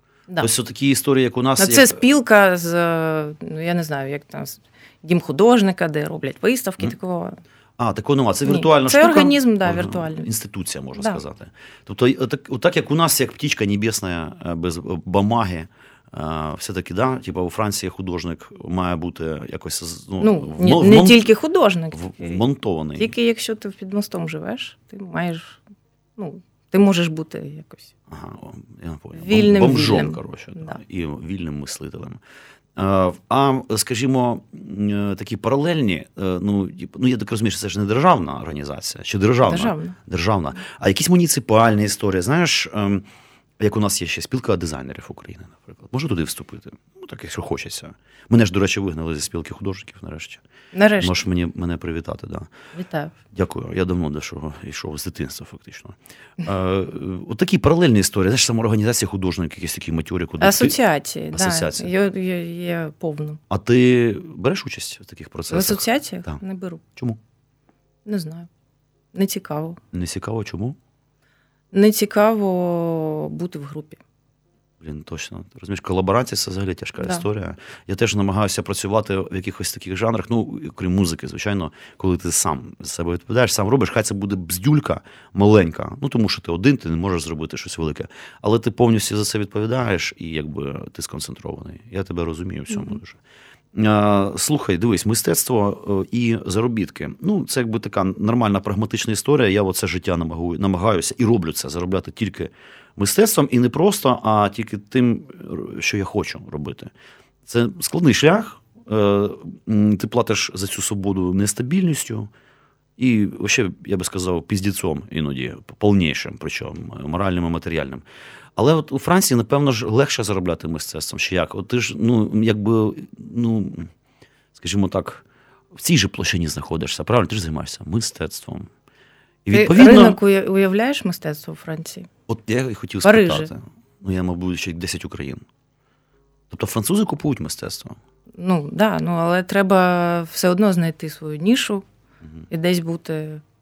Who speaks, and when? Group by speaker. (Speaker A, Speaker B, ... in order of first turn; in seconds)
Speaker A: 0.4-2.0, 7.8-21.3, 21.9-23.1, 28.1-32.2, 32.8-43.0, 43.6-50.4, 51.0-52.5, 53.3-60.8, 61.3-61.9, 63.5-66.4, 69.9-70.8, 74.8-93.2, 93.7-106.9, 107.5-112.3, 113.0-118.0, 118.5-123.9, 124.5-128.7, 129.4-130.2, 132.3-135.4, 136.5-138.0
Speaker B: 1.6-7.4, 8.4-10.3, 20.2-22.4, 23.0-25.6, 26.2-27.9, 29.1-30.8, 39.4-40.0, 50.7-51.2, 52.7-53.1, 60.4-63.4, 65.5-66.8, 68.0-68.5, 69.1-69.8, 71.7-74.0, 129.5-132.1, 133.0-133.5, 138.3-141.8, 142.5-143.4